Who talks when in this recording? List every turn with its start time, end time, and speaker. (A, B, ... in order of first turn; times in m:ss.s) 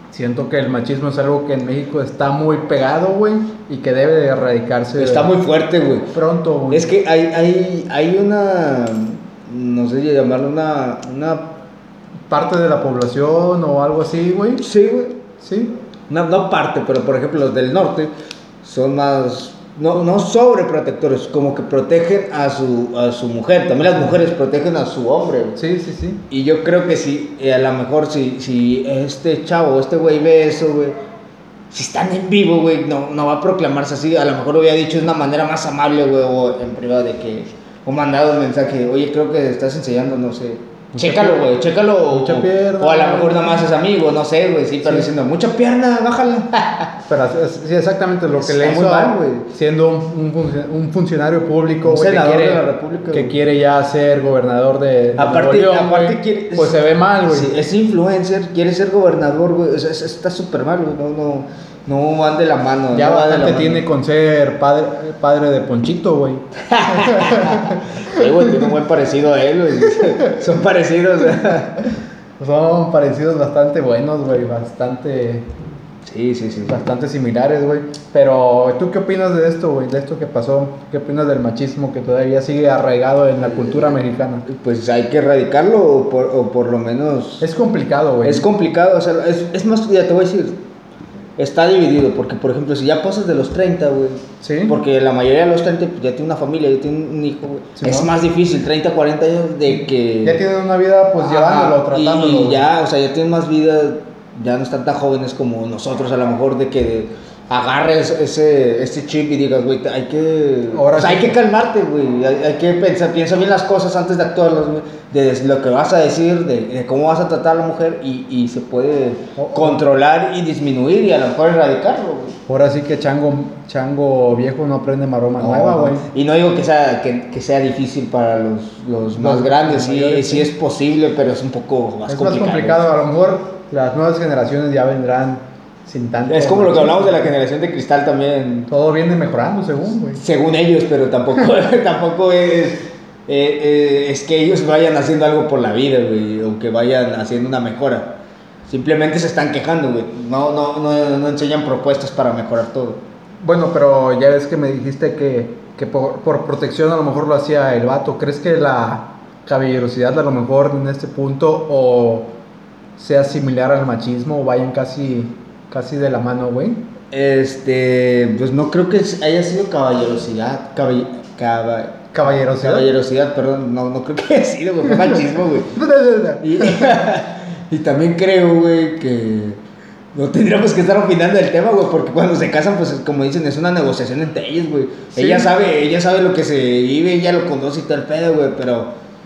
0:00.1-0:05.3 A
0:05.0-0:06.1 B
0:06.1-0:06.9 A
0:06.7-0:11.5 B
0:12.3-0:14.6 A
0:14.6-0:15.2 B
0:15.4-0:15.7 A
0:16.1-0:18.1 B
0:18.6-0:25.6 B
0:25.6-0:26.2 A
0:26.3-0:31.0 B
0:31.7-0:46.9 B
0:40.9-0:41.5 A
0:42.1-0:43.6 A
0:47.1-0:57.5 A
0:48.4-0:49.5 B
0:51.8-0:53.4 B
0:55.2-1:03.8 B
1:02.9-1:08.3 A
1:06.7-1:11.8 B
1:12.4-1:15.5 A
1:16.0-1:16.8 B
1:16.6-1:24.4 A
1:23.4-1:27.5 B
1:27.4-1:28.5 A
1:28.2-1:30.6 B
1:31.4-1:40.4 B
1:34.4-1:34.8 A
1:37.8-1:38.1 A
1:40.2-1:42.7 A
1:41.2-2:02.4 B
1:50.7-1:51.4 A
1:59.4-1:59.8 A
2:02.5-2:06.0 A
2:05.4-2:12.8 B
2:09.2-2:10.5 A
2:12.1-2:17.3 A
2:16.2-2:18.7 B
2:18.7-2:20.2 A
2:20.2-2:33.0 B
2:33.4-2:42.3 A
2:43.0-2:46.8 A
2:47.1-2:55.8 B
2:52.1-2:52.9 A
2:54.9-2:57.0 A
2:56.4-2:59.6 B
3:00.1-3:08.9 B
3:05.1-3:05.5 A